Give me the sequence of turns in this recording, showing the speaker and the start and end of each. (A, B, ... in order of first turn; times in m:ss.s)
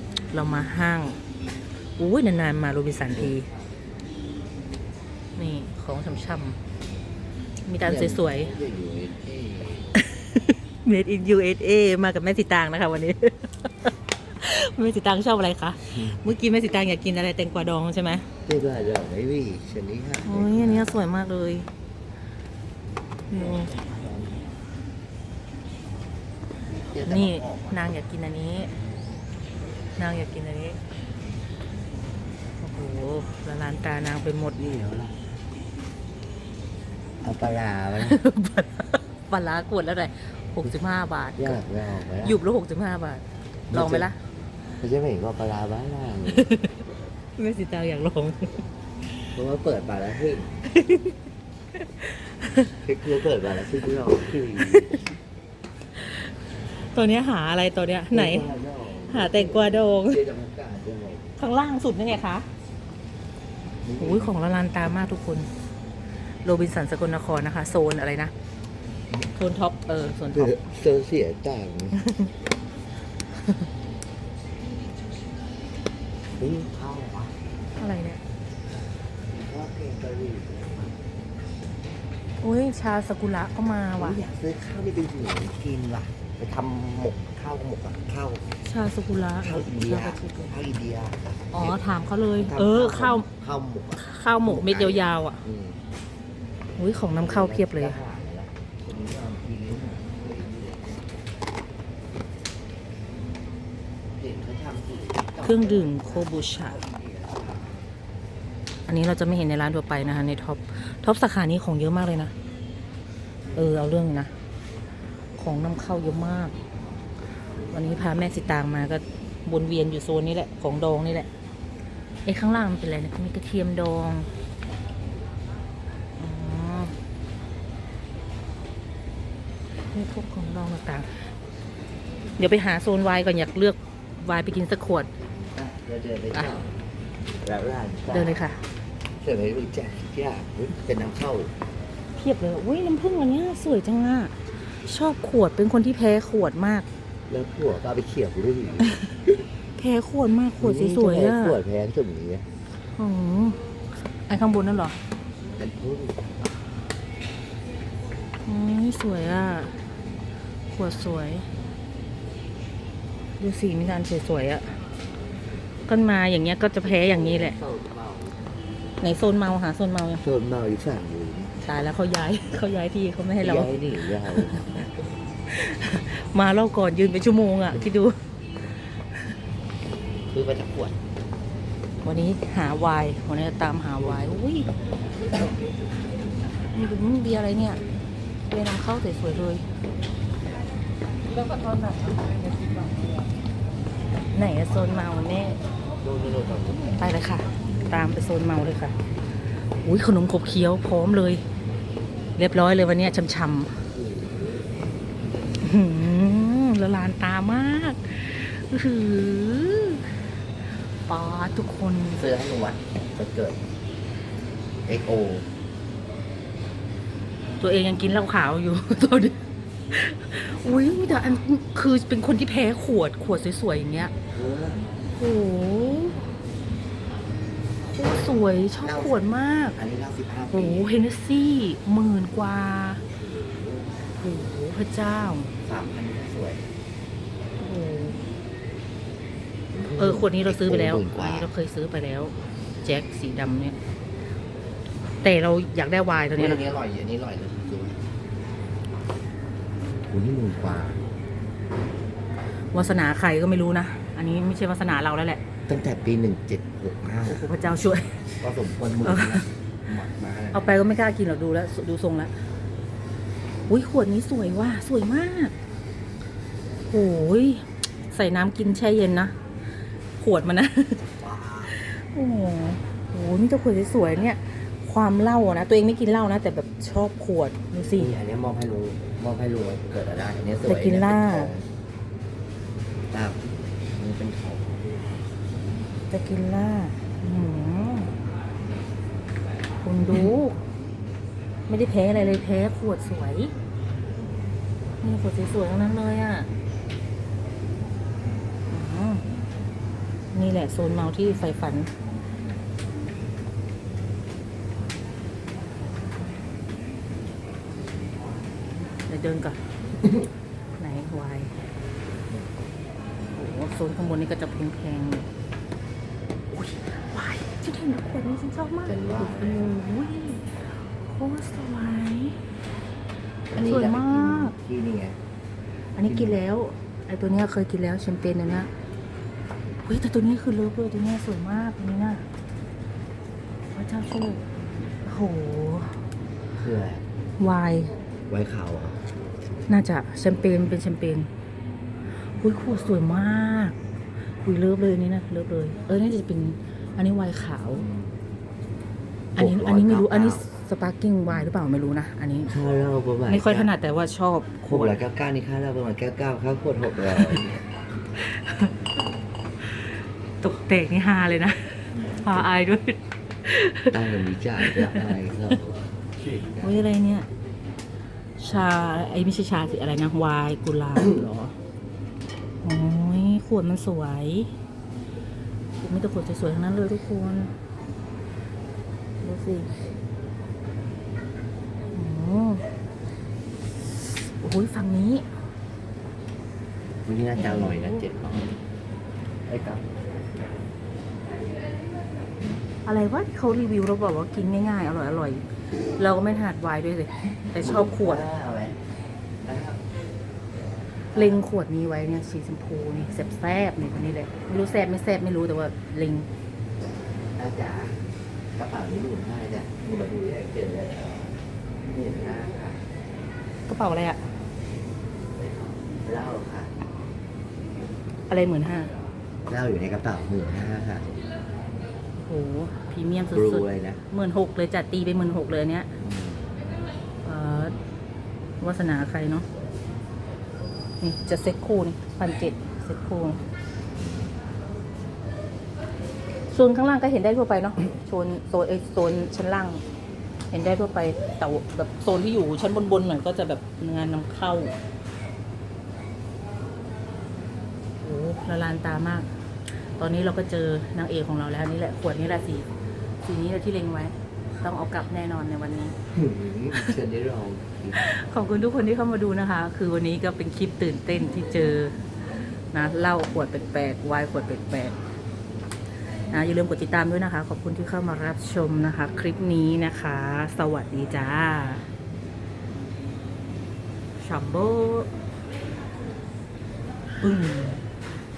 0:00.3-0:01.2 A
0:02.0-0:03.5 A
0:05.4-0:06.6 A
0:07.7-0:08.5 A
0:07.8-0:09.9 B
0:10.0-0:18.3 A
0:18.4-0:21.0 B
0:20.2-0:21.7 A
0:23.3-0:23.7 A
0:23.3-0:24.4 B
0:26.9-0:27.9 B
0:27.0-0:28.7 A
0:30.0-0:30.8 A
0:32.6-0:34.6 A
0:34.6-0:35.2 B
0:37.2-0:38.2 B
0:38.0-0:41.6 A
0:41.4-0:42.4 B
0:42.2-0:44.2 A
0:43.7-0:44.1 B
0:44.8-0:46.5 B
0:46.3-0:46.8 A
0:47.4-0:48.6 A
0:49.3-0:50.7 B
0:50.7-0:51.2 A
0:51.8-0:52.7 A
0:52.8-0:55.0 B
0:54.6-0:55.0 A
0:56.8-0:58.5 A
0:58.1-1:01.3 B
0:59.1-1:00.2 A
1:01.4-1:02.5 A
1:03.8-1:04.3 B
1:04.0-1:05.5 A
1:06.4-1:08.3 A
1:09.4-1:10.5 A
1:10.3-1:12.0 B
1:12.0-1:12.3 A
1:16.4-1:17.3 B
1:17.8-1:18.2 A
1:19.3-1:21.0 B
1:22.4-1:24.2 A
1:24.0-1:28.4 B
1:28.6-1:30.5 A
1:29.4-1:31.8 B
1:31.5-1:33.3 A
1:32.4-1:35.8 B
1:33.9-1:35.4 A
1:36.8-1:38.0 A
1:37.2-1:41.0 B
1:44.2-1:47.8 B
1:45.4-1:46.8 A
1:48.9-1:52.3 A
1:53.5-1:54.3 A
1:55.4-1:56.5 A
1:57.7-2:01.3 A
2:02.2-2:04.3 A
2:06.2-2:07.0 A
2:09.9-2:11.1 A
2:12.4-2:15.1 A
2:15.2-2:16.7 B
2:17.4-2:18.4 B
2:18.1-2:18.6 A
2:19.2-2:21.5 B
2:22.1-2:26.9 A
2:27.3-2:28.9 B
2:29.8-2:31.6 A
2:30.6-2:32.4 B
2:33.0-2:35.0 A
2:35.6-2:36.3 B
2:38.4-2:39.7 A
2:40.7-2:41.5 A
2:43.4-2:44.8 A
2:45.8-2:47.6 A
2:46.8-2:48.4 B
2:49.0-2:50.2 A
2:50.2-2:51.5 B
2:51.6-2:54.8 A
2:53.4-2:54.9 B
2:55.5-2:59.0 A
3:00.3-3:01.0 B
3:02.0-3:04.7 A
3:05.3-3:05.9 B
3:06.7-3:07.8 A
3:08.5-3:09.6 A
3:11.3-3:13.3 A
3:14.3-3:15.6 A
3:16.0-3:17.1 B
3:17.0-3:19.0 A
3:19.8-3:21.4 A
3:22.4-3:23.8 A
3:23.9-3:24.7 B
3:25.6-3:32.2 A
3:32.2-3:33.6 B
3:34.8-3:35.5 B
3:37.6-3:39.4 A
3:39.9-3:44.1 A
3:44.3-3:44.8 B
3:45.2-3:46.3 A
3:47.8-3:49.8 A
3:48.8-3:49.2 B
3:49.8-3:50.9 B
3:50.5-3:53.0 A
3:53.1-3:54.0 B
3:54.2-3:55.5 A
3:55.6-3:56.7 B
3:57.6-3:58.2 A
3:59.7-4:01.5 B
4:00.0-4:03.8 A
4:05.2-4:06.6 A
4:06.4-4:08.0 B
4:10.1-4:11.0 B
4:12.7-4:15.4 A
4:15.7-4:17.5 B
4:17.2-4:18.2 A
4:18.4-4:20.7 B
4:19.0-4:19.5 A
4:20.5-4:22.3 A
4:23.7-4:25.5 A
4:26.9-4:29.3 A
4:30.2-4:31.0 A
4:31.2-4:31.8 B
4:31.7-4:38.1 A
4:37.9-4:41.7 B
4:40.6-4:41.5 A
4:43.1-4:44.8 B
4:46.1-4:48.1 A
4:49.8-4:50.6 A
4:51.7-4:53.5 A
4:55.0-4:56.5 A
4:58.7-4:59.2 A
5:00.3-5:01.9 A
5:09.1-5:09.6 A
5:10.8-5:11.5 A
5:13.3-5:15.2 A
5:16.5-5:22.4 A
5:18.8-5:19.7 B
5:23.5-5:25.2 B
5:23.5-5:24.5 A
5:26.0-5:28.7 A
5:26.0-5:26.4 B
5:29.8-5:32.2 A
5:33.7-5:34.4 A
5:35.0-5:36.0 A
5:36.6-5:37.0 B
5:37.4-5:37.9 A
5:38.3-5:39.1 B
5:39.7-5:41.3 A
5:42.4-5:43.7 A
5:44.4-5:47.9 A
5:49.4-5:50.4 B
5:49.4-5:52.5 A
5:52.5-5:53.7 B
5:53.3-5:55.0 A
5:54.7-5:57.6 B
5:58.2-5:58.7 A
5:59.7-6:05.1 A
6:03.9-6:06.7 B
6:06.6-6:07.3 A
6:08.4-6:11.6 A
6:12.6-6:14.5 A
6:15.8-6:17.5 A
6:19.2-6:19.7 A
6:21.9-6:22.6 A
6:24.0-6:25.2 A
6:27.0-6:28.6 B
6:27.4-6:28.0 A
6:29.5-6:29.9 B
6:32.8-6:38.3 A
6:37.6-6:38.9 B
6:39.4-6:39.8 B
6:41.1-6:41.4 B
6:41.1-6:46.3 A
6:47.4-6:52.9 B
6:53.7-6:54.2 A
6:55.8-6:56.7 B
6:58.3-6:58.9 A
6:59.5-7:01.2 B
7:02.2-7:05.9 A
7:03.3-7:04.0 B
7:06.0-7:06.6 B
7:07.2-7:07.7 A
7:08.6-7:09.4 A
7:11.0-7:13.4 A
7:14.0-7:14.3 B
7:16.5-7:19.8 A
7:20.5-7:24.7 A
7:28.0-7:29.3 A
7:30.0-7:32.7 A
7:33.2-7:36.0 A
7:36.1-7:38.0 B
7:36.7-7:37.0 A
7:37.9-7:42.0 A
7:42.7-7:45.0 A
7:46.3-7:51.9 A
7:54.2-7:55.1 A
7:57.2-7:57.8 A